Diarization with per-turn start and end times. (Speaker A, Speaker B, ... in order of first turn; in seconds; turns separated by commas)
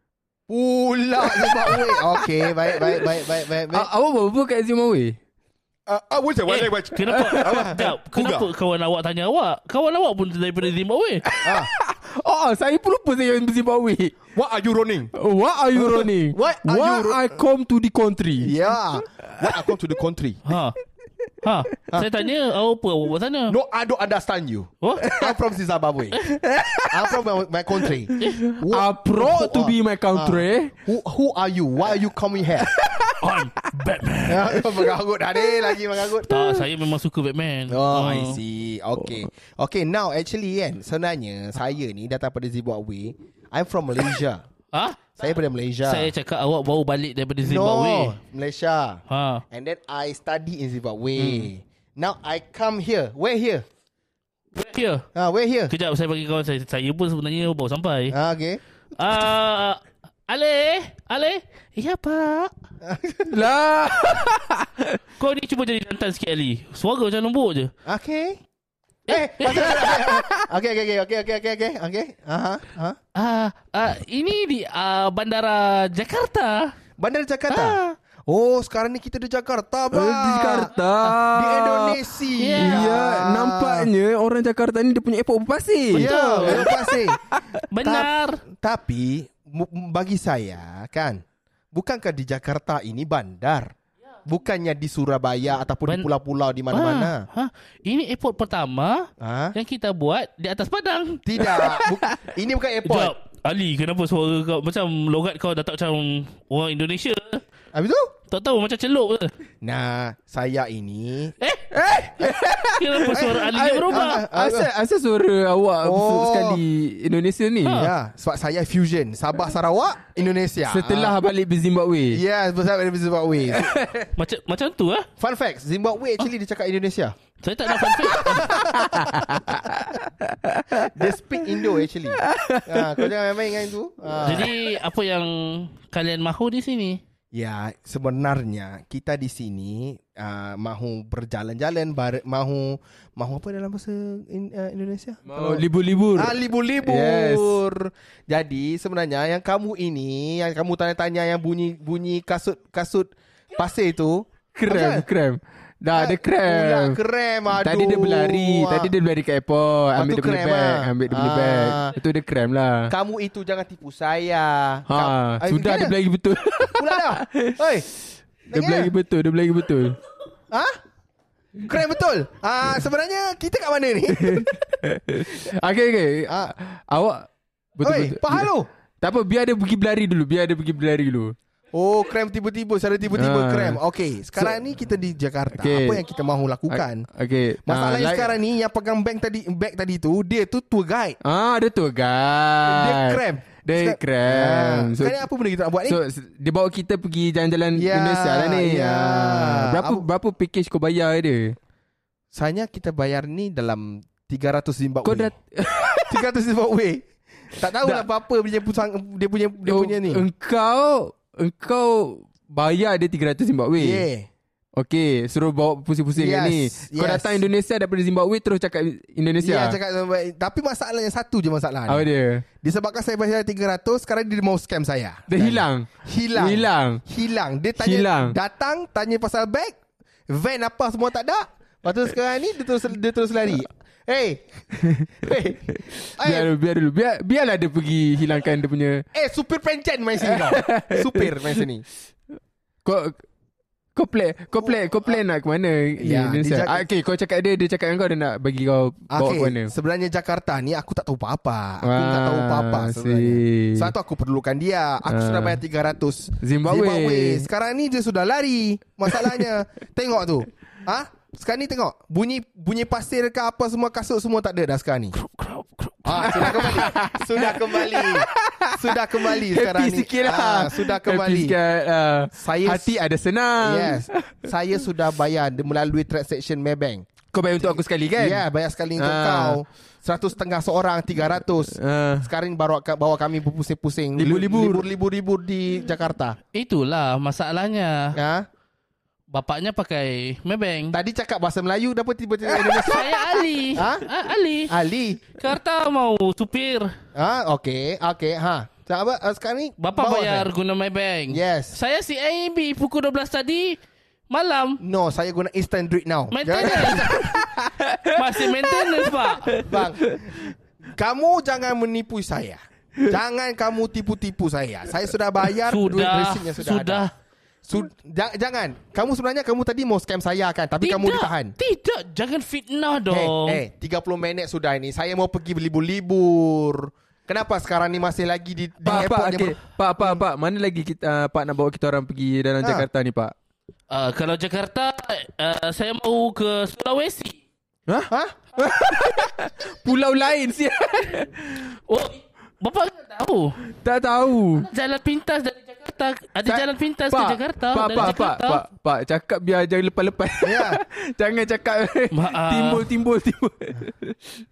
Speaker A: 0.5-3.9, Speaker B: 1.4-3.2, Speaker B: 3.7-5.2, Speaker A: 5.9-8.5, Speaker C: 6.5-11.2, Speaker B: 7.1-7.7, Speaker B: 11.3-14.2, Speaker A: 11.4-11.7, Speaker A: 14.3-15.1, Speaker B: 15.1-19.6, Speaker A: 15.7-17.3, Speaker A: 18.4-20.4, Speaker C: 20.4-20.8, Speaker C: 21.4-23.6, Speaker A: 23.5-26.2, Speaker C: 24.8-25.1, Speaker B: 25.0-25.4, Speaker B: 26.2-27.1, Speaker A: 26.9-32.7, Speaker B: 27.8-30.7, Speaker B: 32.7-33.2, Speaker C: 33.2-34.6, Speaker A: 34.3-36.3, Speaker B: 35.4-35.8, Speaker C: 36.2-38.4, Speaker A: 37.7-44.4, Speaker C: 44.7-45.2, Speaker A: 45.2-46.1, Speaker C: 45.8-48.2, Speaker A: 47.4-53.6, Speaker C: 49.1-49.4, Speaker B: 51.2-51.5, Speaker C: 54.5-55.1, Speaker A: 55.1-55.7, Speaker C: 55.7-58.1, Speaker A: 58.1-58.6, Speaker C: 59.0-62.5, Speaker A: 62.8-63.4, Speaker B: 63.3-65.0, Speaker C: 65.2-67.7, Speaker A: 67.8-68.4, Speaker A: 69.1-73.0, Speaker C: 69.1-69.9, Speaker B: 69.9-70.4, Speaker C: 73.1-76.7, Speaker A: 77.0-80.7, Speaker C: 77.5-77.8, Speaker B: 79.9-87.6, Speaker A: 81.2-83.9, Speaker C: 82.4-82.9, Speaker A: 85.9-87.2, Speaker C: 85.9-86.7, Speaker C: 87.7-88.4, Speaker A: 87.8-93.7, Speaker A: 94.2-97.2, Speaker C: 96.7-101.7, Speaker A: 99.2-99.5, Speaker A: 101.2-103.1, Speaker B: 101.6-101.9, Speaker C: 102.8-107.4, Speaker A: 107.7-108.1, Speaker C: 108.3-109.3, Speaker A: 109.6-111.3, Speaker C: 111.4-111.7, Speaker B: 111.7-117.9, Speaker C: 112.7-114.2, Speaker A: 113.1-114.7, Speaker A: 115.8-116.6, Speaker C: 117.6-117.9, Speaker A: 117.7-121.1, Speaker B: 120.7-122.2, Speaker A: 122.1-123.8, Speaker B: 123.5-124.1, Speaker C: 124.2-125.1, Speaker A: 125.2-127.2, Speaker C: 127.4-128.6, Speaker A: 128.1-129.4, Speaker B: 128.5-131.7, Speaker A: 130.8-134.5, Speaker B: 132.2-133.1, Speaker C: 134.2-137.0, Speaker A: 137.3-155.1, Speaker B: 145.2-147.6, Speaker B: 154.5-157.0, Speaker A: 155.9-158.9, Speaker B: 157.6-162.9, Speaker A: 159.9-161.9, Speaker A: 162.9-165.9, Speaker B: 164.9-167.7, Speaker A: 166.7-167.9, Speaker A: 168.5-168.9, Speaker B: 168.5-170.0, Speaker A: 170.5-170.8, Speaker A: 171.6-174.6, Speaker B: 174.1-178.5, Speaker A: 176.3-176.5, Speaker A: 177.8-178.7, Speaker B: 179.0-181.3, Speaker A: 181.7-187.1, Speaker B: 183.1-183.8, Speaker B: 185.6-186.1, Speaker B: 186.7-188.3, Speaker A: 187.7-191.2, Speaker B: 191.2-195.2, Speaker A: 192.7-196.0, Speaker B: 195.9-201.6, Speaker A: 197.8-200.0, Speaker A: 202.3-205.3, Speaker B: 205.0-206.2, Speaker A: 206.1-210.2, Speaker B: 207.8-208.1, Speaker B: 209.6-214.0, Speaker A: 213.8-214.3, Speaker B: 214.8-219.8, Speaker A: 216.1-217.4, Speaker A: 219.4-222.1, Speaker B: 221.9-222.4, Speaker A: 222.6-229.7, Speaker B: 225.3-227.0, Speaker B: 227.8-228.3, Speaker A: 230.3-236.5, Speaker B: 234.8-239.1, Speaker A: 239.1-241.8, Speaker B: 240.2-241.6, Speaker B: 242.8-243.2, Speaker B: 243.9-249.7, Speaker A: 244.6-245.2, Speaker A: 246.0-246.8, Speaker A: 249.1-265.1, Speaker B: 251.8-253.9, Speaker B: 255.1-255.6, Speaker B: 256.4-257.5, Speaker B: 259.1-259.4, Speaker C: 265.1-266.6, Speaker A: 266.0-271.6, Speaker B: 266.2-274.5, Speaker A: 272.3-273.0, Speaker A: 273.6-286.4, Speaker B: 277.3-278.4, Speaker B: 279.0-279.6, Speaker B: 281.7-282.3, Speaker B: 284.1-284.9, Speaker C: 286.5-288.2, Speaker A: 288.1-288.4, Speaker C: 289.3-290.9, Speaker A: 290.9-294.1, Speaker C: 292.5-294.7, Speaker A: 294.7-295.2, Speaker C: 295.3-296.9, Speaker A: 297.1-300.5, Speaker C: 299.8-303.8, Speaker A: 301.3-301.8, Speaker C: 304.3-304.8, Speaker A: 304.8-307.5, Speaker C: 306.3-307.3, Speaker B: 307.2-310.4, Speaker C: 308.1-309.6, Speaker A: 309.6-317.1, Speaker C: 315.7-317.1, Speaker A: 317.6-321.5, Speaker C: 320.8-323.6, Speaker A: 323.1-330.2, Speaker B: 328.8-333.3, Speaker A: 332.6-332.9, Speaker C: 333.9-337.4, Speaker B: 337.9-341.7, Speaker A: 338.1-338.4, Speaker C: 341.9-343.6, Speaker B: 343.7-344.7, Speaker C: 344.6-348.6, Speaker B: 346.5-354.4, Speaker A: 350.4-350.8, Speaker C: 352.1-352.9